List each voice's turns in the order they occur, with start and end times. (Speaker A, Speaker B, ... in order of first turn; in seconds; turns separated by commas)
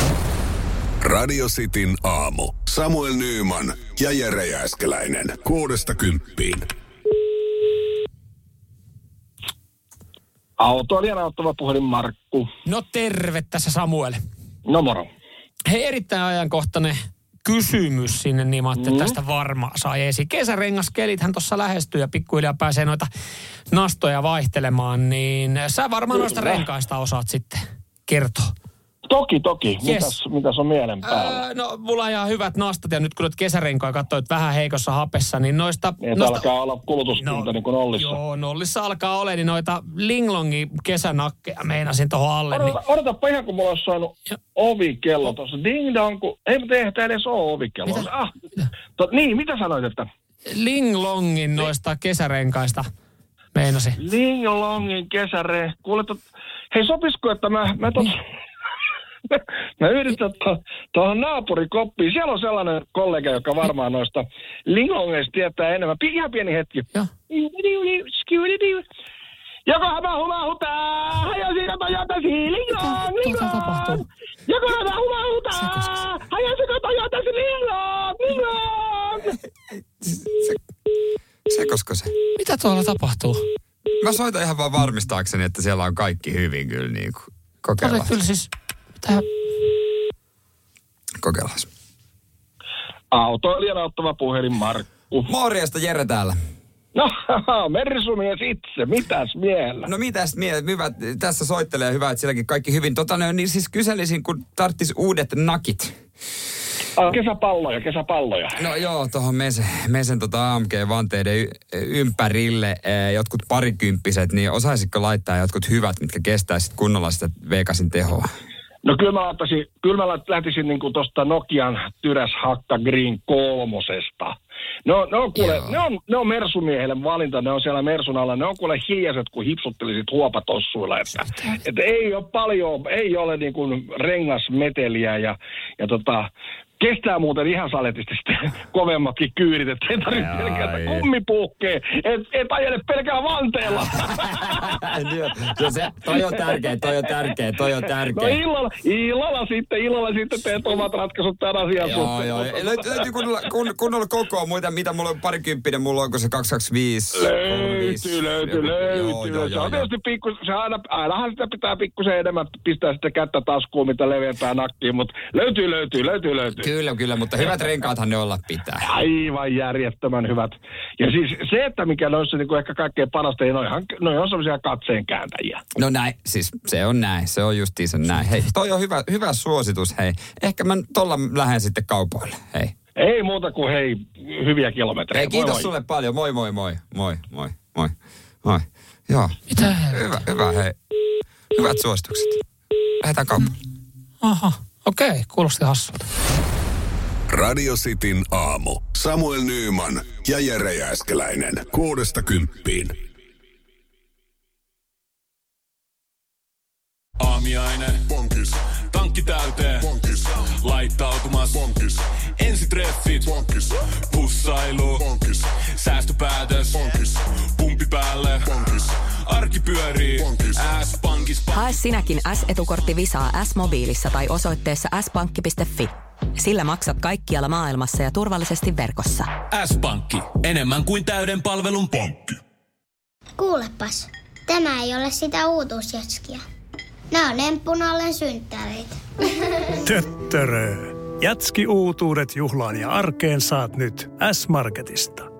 Speaker A: 1.0-6.7, Speaker B: 10.6-12.5, Speaker C: 12.7-14.2, Speaker B: 14.7-15.1, Speaker C: 15.7-23.1, Speaker B: 18.8-19.2, Speaker C: 23.7-28.5, Speaker B: 26.1-26.7, Speaker B: 29.1-31.4, Speaker C: 29.8-30.1, Speaker C: 31.1-36.5, Speaker B: 36.0-38.2, Speaker C: 37.2-42.8, Speaker B: 42.5-48.3, Speaker B: 49.0-50.1, Speaker C: 50.5-52.9, Speaker C: 53.5-54.0, Speaker B: 54.0-56.2, Speaker B: 56.7-58.2, Speaker B: 59.3-68.8, Speaker B: 69.7-79.4, Speaker C: 72.8-74.0, Speaker D: 75.5-76.1, Speaker D: 80.0-80.6, Speaker D: 81.5-82.1, Speaker C: 82.4-83.4, Speaker D: 84.0-88.2, Speaker C: 87.8-88.5, Speaker D: 91.2-91.7, Speaker B: 93.1-95.3, Speaker D: 95.3-96.4, Speaker B: 96.9-99.9, Speaker D: 99.8-105.9, Speaker B: 107.0-108.6, Speaker D: 108.6-118.3, Speaker B: 118.8-144.8, Speaker D: 125.4-125.8, Speaker C: 131.2-131.6, Speaker D: 140.1-141.1, Speaker D: 144.3-148.4, Speaker B: 148.1-153.1, Speaker D: 151.8-159.9, Speaker B: 157.1-166.7, Speaker D: 166.6-168.9, Speaker B: 168.8-175.6, Speaker D: 175.8-182.7, Speaker B: 183.0-185.7, Speaker D: 185.1-190.8, Speaker C: 189.5-190.2, Speaker D: 191.6-192.4, Speaker D: 193.0-193.5, Speaker C: 194.2-196.0, Speaker A: 197.3-202.9, Speaker E: 207.2-208.3, Speaker E: 208.9-221.8, Speaker F: 221.6-229.3, Speaker E: 229.5-232.3, Speaker G: 233.4-236.4, Speaker G: 237.1-238.9, Speaker H: 239.8-245.3